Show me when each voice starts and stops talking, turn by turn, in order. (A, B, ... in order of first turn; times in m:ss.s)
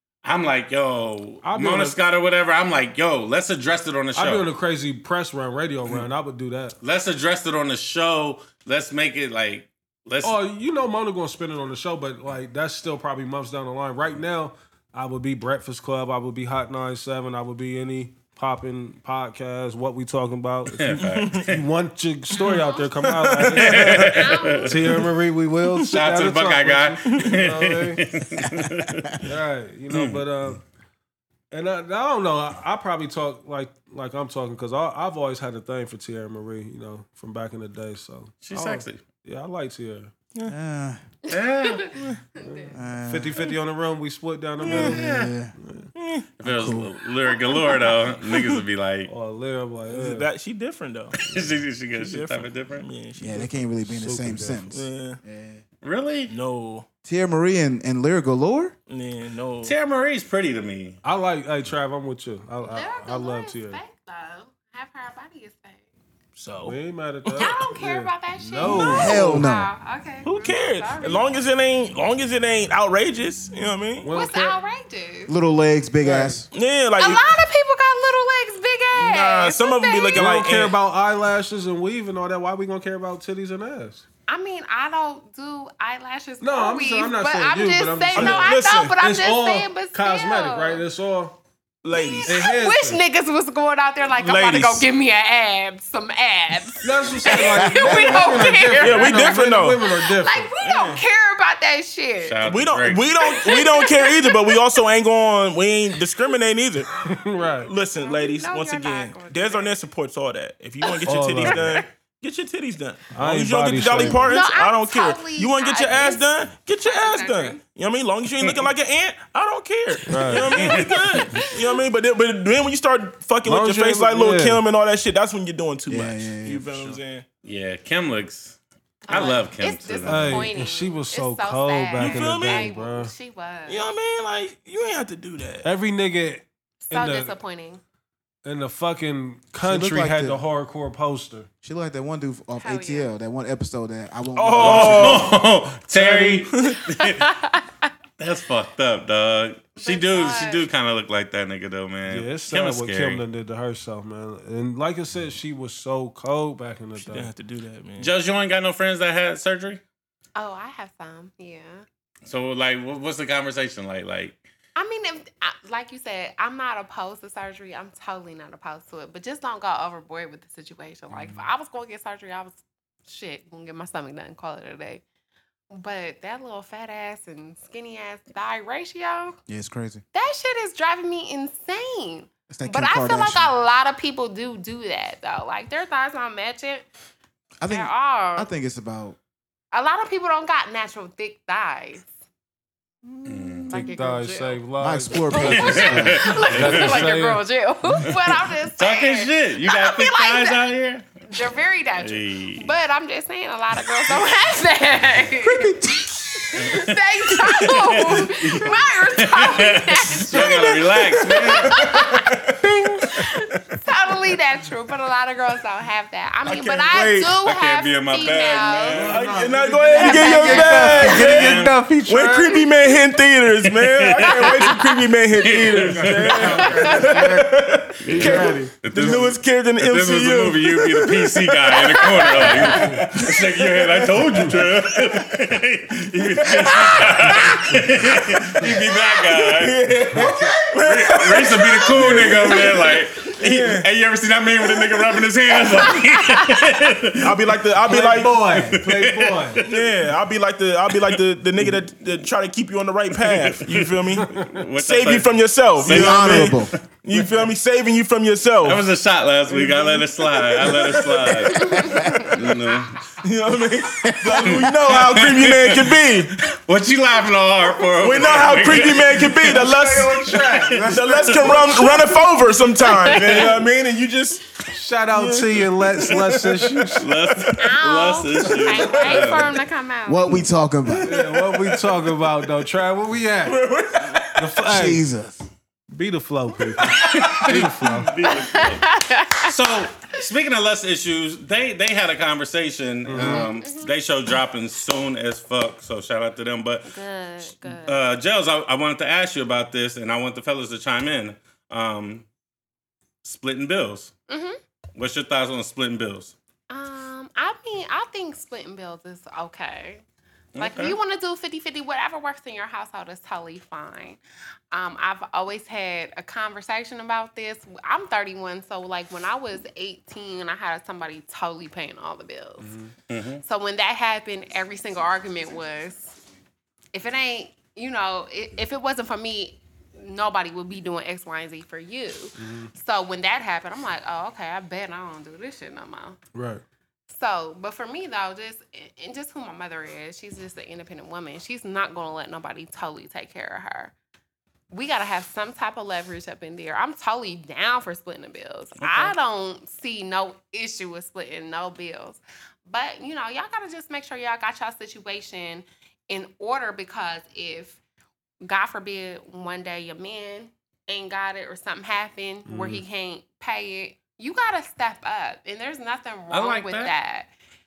0:00.2-0:04.5 A
0:01.4-0:02.0 B
0:04.2-0:06.8 B
0:06.8-0:10.4 A
0:10.2-0:28.0 B
0:20.7-0:21.6 A
0:21.0-0:21.5 C
0:22.5-0:22.9 D
0:23.0-0:24.0 C
0:23.6-0:24.7 A
0:24.0-0:24.9 D
0:25.9-0:29.2 A
0:27.1-0:27.4 C
0:28.4-0:29.2 E
0:29.2-0:30.6 B
0:29.9-0:30.2 A
0:31.5-0:40.1 B
0:38.4-0:39.0 A
0:40.5-0:41.0 E
0:41.3-0:42.8 D
0:41.3-0:42.0 A
0:42.4-0:45.0 B
0:42.7-0:43.5 E
0:44.6-0:45.5 E
0:44.7-0:44.9 C
0:44.7-0:45.4 A
0:45.6-0:45.9 B
0:46.0-0:46.3 C
0:46.4-0:49.1 A
0:46.4-0:47.0 E
0:47.3-0:48.0 D
0:48.2-0:48.6 C
0:49.1-0:50.3 B
0:49.9-0:51.3 C
0:51.2-0:52.9 A
0:52.0-0:53.5 C
0:53.2-0:55.6 E
0:53.8-0:54.7 B
0:54.7-0:55.2 C
0:55.8-0:56.3 A
0:56.3-0:56.9 C
0:57.0-0:58.7 E
0:58.9-0:59.8 C
0:59.6-1:01.0 A
1:01.0-1:03.8 B
1:02.6-1:05.9 D
1:06.4-1:07.5 C
1:06.6-1:09.5 B
1:07.3-1:11.3 D
1:08.6-1:09.1 C
1:08.8-1:09.7 E
1:10.2-1:14.1 C
1:14.0-1:14.6 B
1:14.1-1:15.3 D
1:15.3-1:16.5 E
1:16.0-1:16.4 B
1:16.5-1:17.4 C
1:17.0-1:20.3 D
1:18.9-1:20.8 C
1:20.1-1:24.0 B
1:24.3-1:30.8 D
1:26.4-1:31.4 B
1:28.2-1:29.0 C
1:31.8-1:32.4 C
1:31.9-1:42.4 D
1:32.3-1:33.0 B
1:34.1-1:34.9 C
1:36.8-1:40.5 B
1:37.6-1:38.1 E
1:38.8-1:39.8 C
1:40.6-1:41.0 C
1:42.2-1:43.1 A
1:42.4-1:46.9 C
1:43.2-1:44.8 D
1:47.0-1:47.7 B
1:47.5-2:07.3 C
1:48.0-1:49.7 D
1:50.8-1:51.9 D
1:51.1-1:51.8 B
1:53.1-1:54.3 B
1:54.2-1:56.3 D
1:56.9-1:57.6 D
1:58.4-1:58.7 A
2:00.1-2:00.6 B
2:00.5-2:01.2 A
2:00.7-2:01.8 D
2:03.4-2:04.6 B
2:05.9-2:07.0 E
2:07.4-2:10.5 A
2:09.1-2:13.9 D
2:10.0-2:13.1 B
2:12.0-2:12.8 C
2:13.7-2:15.7 C
2:15.6-2:17.4 B
2:16.9-2:17.8 D
2:18.4-2:21.5 B
2:19.6-2:20.4 E
2:21.6-2:25.3 E
2:22.6-2:23.1 D
2:24.4-2:25.4 C
2:24.6-2:27.3 A
2:25.9-2:26.5 B
2:26.5-2:26.8 C
2:26.7-2:27.9 D
2:28.2-2:33.2 A
2:29.8-2:30.7 D
2:32.1-2:37.3 B
2:37.0-2:38.1 C
2:38.0-2:39.8 A
2:40.4-2:41.8 D
2:42.2-2:44.4 A
2:44.8-2:55.0 D
2:55.7-2:59.4 D
2:59.5-3:00.0 E
3:00.1-3:06.9 D
3:02.5-3:03.5 E
3:07.6-3:09.2 E
3:07.7-3:08.5 D
3:09.7-3:12.1 D
3:13.2-3:13.7 A
3:13.4-3:13.7 E
3:13.7-3:14.6 D
3:13.7-3:17.4 B
3:14.8-3:16.4 E
3:15.3-3:20.7 D
3:15.4-3:17.1 A
3:18.0-3:21.1 A
3:21.3-3:32.4 D
3:22.0-3:22.7 A
3:25.5-3:26.5 E
3:26.6-3:32.0 A
3:30.3-3:33.0 C
3:33.0-3:39.1 D
3:36.4-3:37.4 C
3:37.4-3:39.2 A
3:38.9-3:42.6 B
3:39.0-3:55.0 C
3:39.9-3:41.4 D
3:41.0-3:41.8 A
3:43.7-3:44.8 A
3:44.3-3:44.9 D
3:45.4-3:46.8 A
3:45.8-3:49.3 B
3:46.6-3:47.2 D
3:48.0-4:07.5 A
3:51.8-3:53.0 D
3:52.6-3:53.1 B
3:56.4-3:57.5 C
3:56.7-3:57.6 D
3:58.1-3:58.7 C
3:59.4-4:03.9 C
4:00.1-4:00.4 B
4:01.8-4:03.4 D
4:05.7-4:06.7 D
4:07.2-4:08.4 C
4:07.8-4:09.6 B
4:08.5-4:09.9 A
4:09.6-4:18.8 C
4:13.2-4:17.2 A
4:15.8-4:16.7 E
4:18.6-4:23.0 A
4:19.5-4:21.8 C
4:21.5-4:22.4 D
4:21.8-4:22.3 E
4:23.2-4:26.4 C
4:24.1-4:24.5 E
4:24.4-4:31.8 A
4:28.0-4:30.3 C
4:29.4-4:31.9 B
4:30.9-4:34.5 C
4:31.8-4:32.2 D
4:32.8-4:33.6 D
4:34.7-4:37.1 B
4:35.1-4:36.6 C
4:37.0-4:39.6 A
4:37.6-4:40.4 D
4:38.9-4:39.4 C
4:40.1-4:41.1 E
4:41.0-4:43.6 B
4:41.0-4:42.0 C
4:43.4-4:44.5 C
4:44.4-4:45.1 B
4:44.7-4:45.4 E
4:45.9-4:48.2 B
4:46.8-4:47.4 C
4:46.9-4:57.0 A
4:48.3-4:49.6 D
4:53.1-4:53.5 B
4:53.2-4:53.9 D
4:56.9-4:58.0 D
4:57.6-5:02.3 A
5:03.2-5:04.1 A
5:04.3-5:04.6 D
5:05.0-5:06.4 A
5:06.7-5:10.0 D
5:10.6-5:11.0 A
5:10.6-5:14.2 D
5:14.7-5:22.8 D
5:22.6-5:22.9 B
5:23.1-5:23.4 A
5:23.4-5:26.2 D
5:26.9-5:36.2 D
5:32.4-5:32.7 B
5:36.4-5:36.6 B
5:37.1-5:43.9 D
5:44.7-5:57.8 D
5:48.8-5:49.2 A
5:58.4-6:07.3 D
6:02.5-6:02.8 B
6:06.3-6:06.9 A